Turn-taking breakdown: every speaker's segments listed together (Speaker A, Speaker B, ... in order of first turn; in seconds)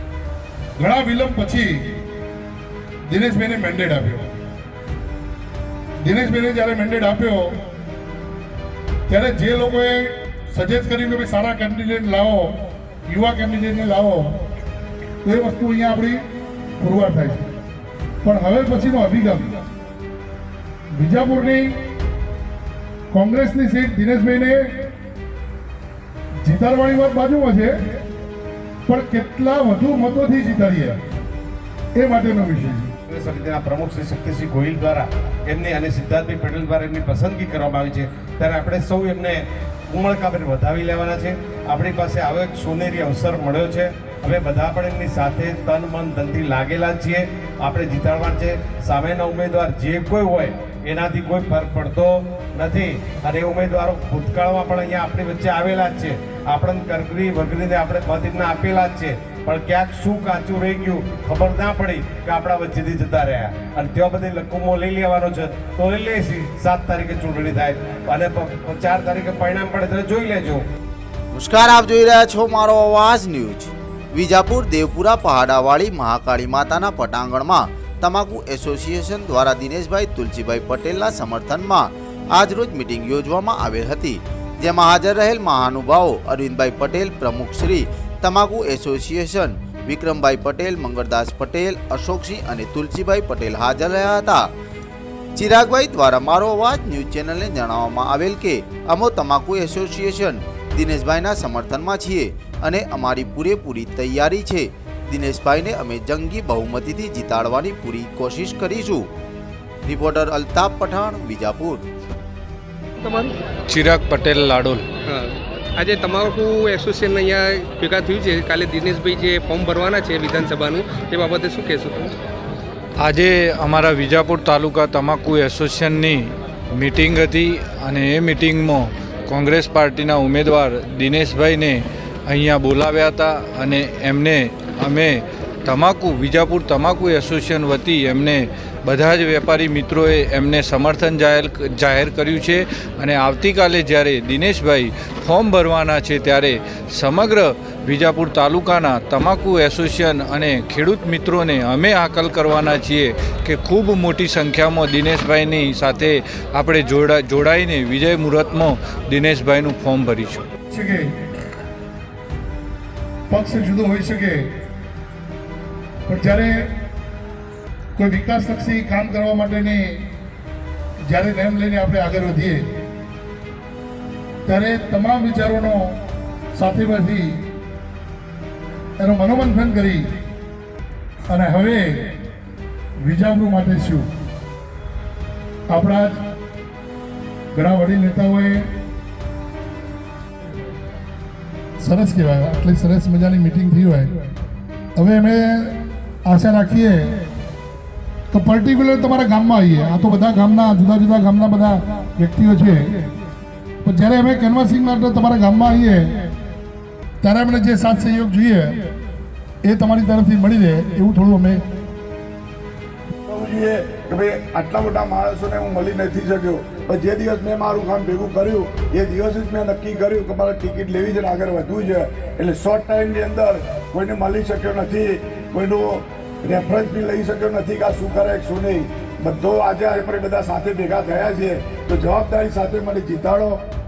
Speaker A: 0.8-1.9, 3.1-4.3, 6.0-7.6, 9.1-12.6, 13.1-14.4, 15.2-16.2, 16.8-17.4, 18.2-19.6, 20.9-21.7, 23.1-24.7, 26.4-27.7, 28.9-31.0, 32.0-32.9, 160.7-161.1, 163.3-164.5, 166.1-166.7, 167.9-170.0, 171.0-172.6, 174.4-175.9, 176.5-177.4, 179.0-180.1, 181.3-182.1, 183.0-184.1, 185.7-186.2, 187.5-188.7, 191.8-194.1, 194.9-197.1, 198.3-202.9, 203.8-206.1, 207.2-208.8, 209.6-211.6
Speaker B: 33.1-70.6
Speaker C: 71.3-94.5, 95.4-109.1, 109.9-111.9
Speaker D: 113.0-113.3, 115.8-122.1
Speaker E: 113.7-114.8, 123.0-160.4
Speaker F: 213.3-233.6